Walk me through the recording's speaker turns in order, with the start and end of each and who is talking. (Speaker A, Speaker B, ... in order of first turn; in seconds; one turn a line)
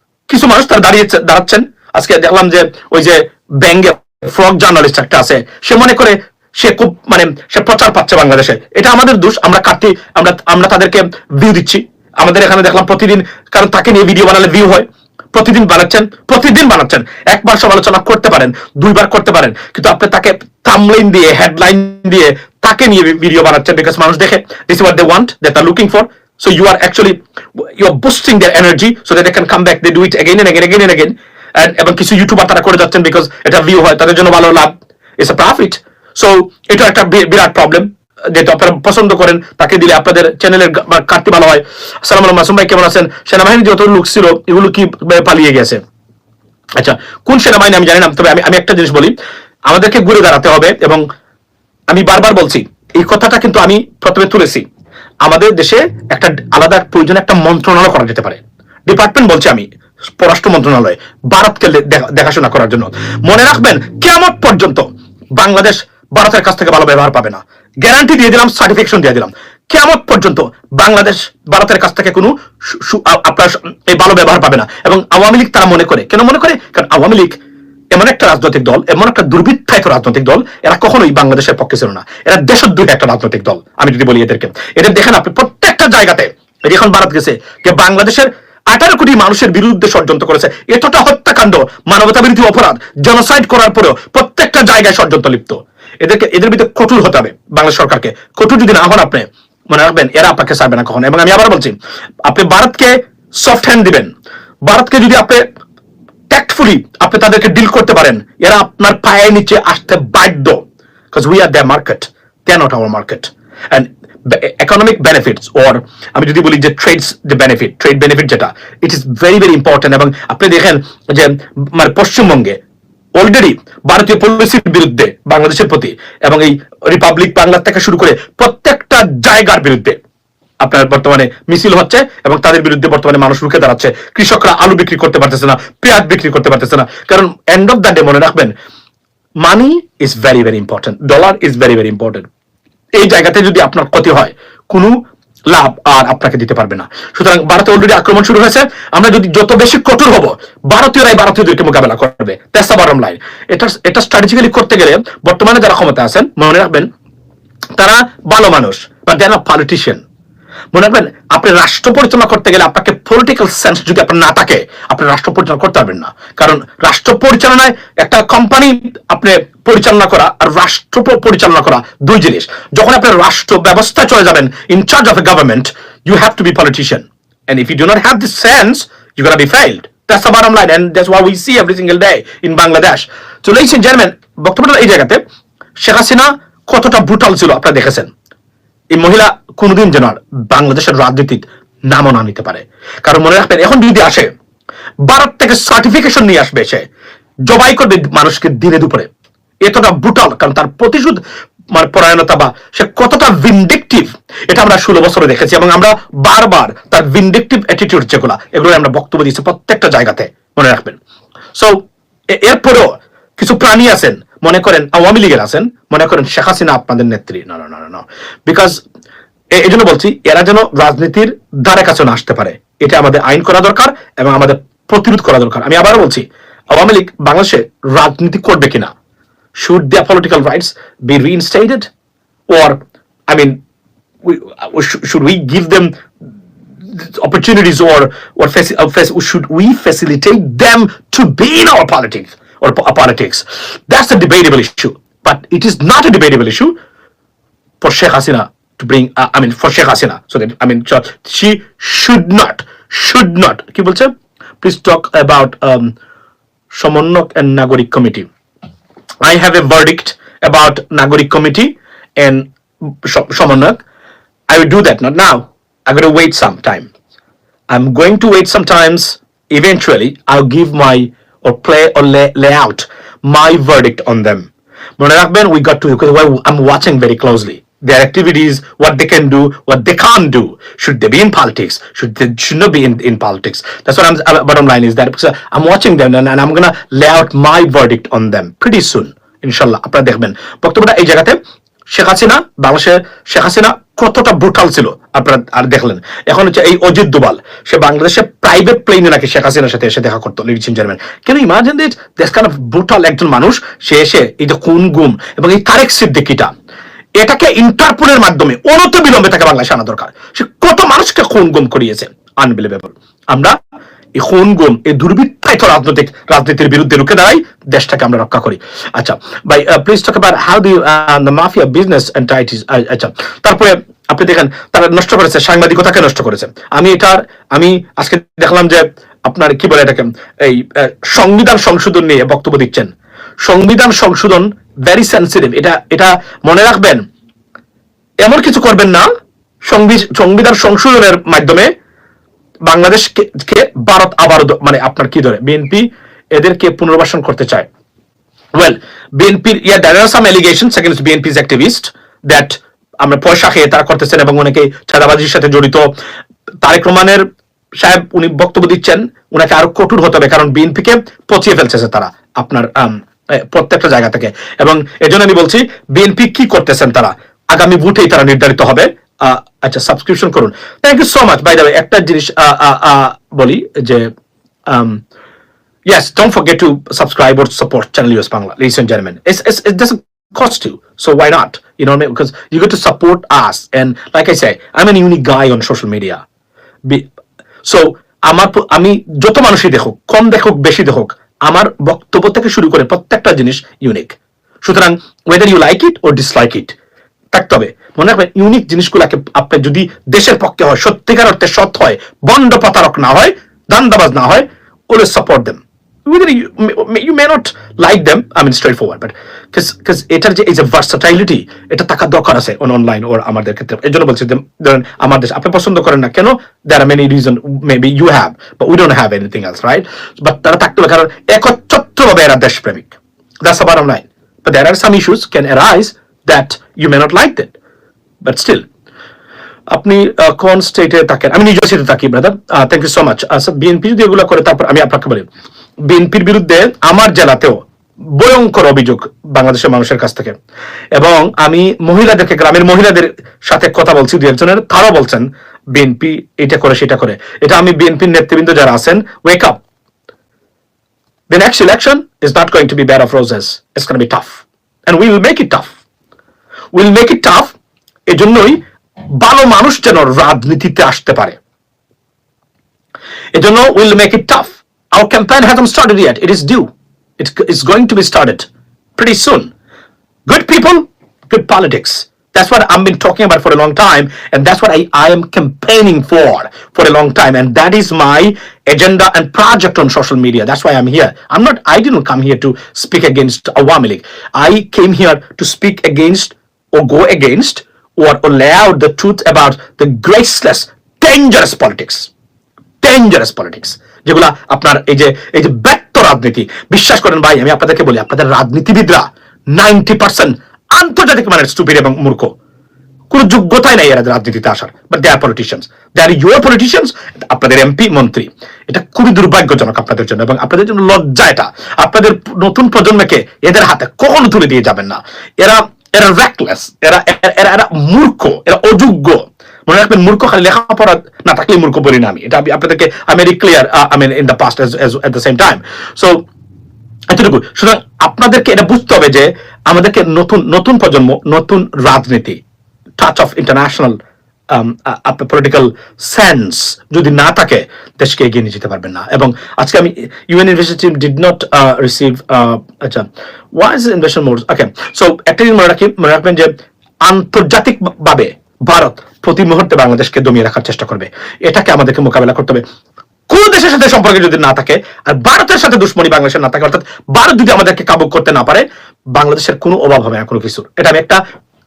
Speaker A: 0.3-45.8
Speaker A: 46.8-49.1
Speaker A: 49.7-51.0
Speaker A: 51.9-54.6
Speaker A: 55.2-77.4
Speaker A: 77.9-104.1
Speaker A: 104.6-105.4
Speaker A: 106.3-122.6
Speaker A: 123.2-130.0
Speaker A: 130.6-138.5
Speaker A: 139.4-142.3
Speaker A: 142.9-156.9
Speaker A: 157.8-160.0
Speaker A: 160.7-185.2
Speaker A: 185.8-188.1
Speaker A: 188.9-194.3
Speaker A: 195.1-196.9
Speaker A: 197.5-199.1
Speaker A: 199.6-201.2
Speaker A: 201.7-211.0
Speaker A: 211.6-218.8
Speaker A: 219.6-228.9
Speaker A: 229.6-231.9
Speaker A: 232.5-233.6
Speaker A: 234.2-235.9
Speaker A: 236.9-246.8
Speaker A: 247.8-255.9
Speaker A: 256.7-258.3
Speaker A: 259.2-262.5
Speaker A: 263.0-263.8
Speaker A: 264.5-266.9
Speaker A: 267.7-291.4
Speaker A: 291.9-306.5
Speaker A: 307.2-313.6
Speaker A: 314.2-337.0
Speaker A: 338.2-339.1
Speaker A: 339.6-341.7
Speaker A: 342.7-347.7
Speaker A: 348.6-355.9
Speaker A: 356.6-357.2
Speaker A: 357.8-374.1
Speaker A: 374.7-375.0
Speaker A: 375.9-386.2
Speaker A: 387.6-396.8
Speaker A: 397.3-427.5
Speaker A: 428.2-428.6
Speaker A: 429.7-435.3
Speaker A: 435.8-437.6
Speaker A: 438.2-440.4
Speaker A: 440.9-449.6
Speaker A: 451.3-455.7
Speaker A: 456.7-457.5
Speaker A: 458.1-458.6
Speaker A: 459.2-461.4
Speaker A: 463.3-469.5
Speaker A: 470.3-492.1
Speaker A: 492.8-502.3
Speaker A: 503.1-526.3
Speaker A: 527.1-532.4
Speaker A: 533.0-534.0
Speaker A: 534.5-546.5
Speaker A: 547.0-552.6
Speaker A: 553.3-561.2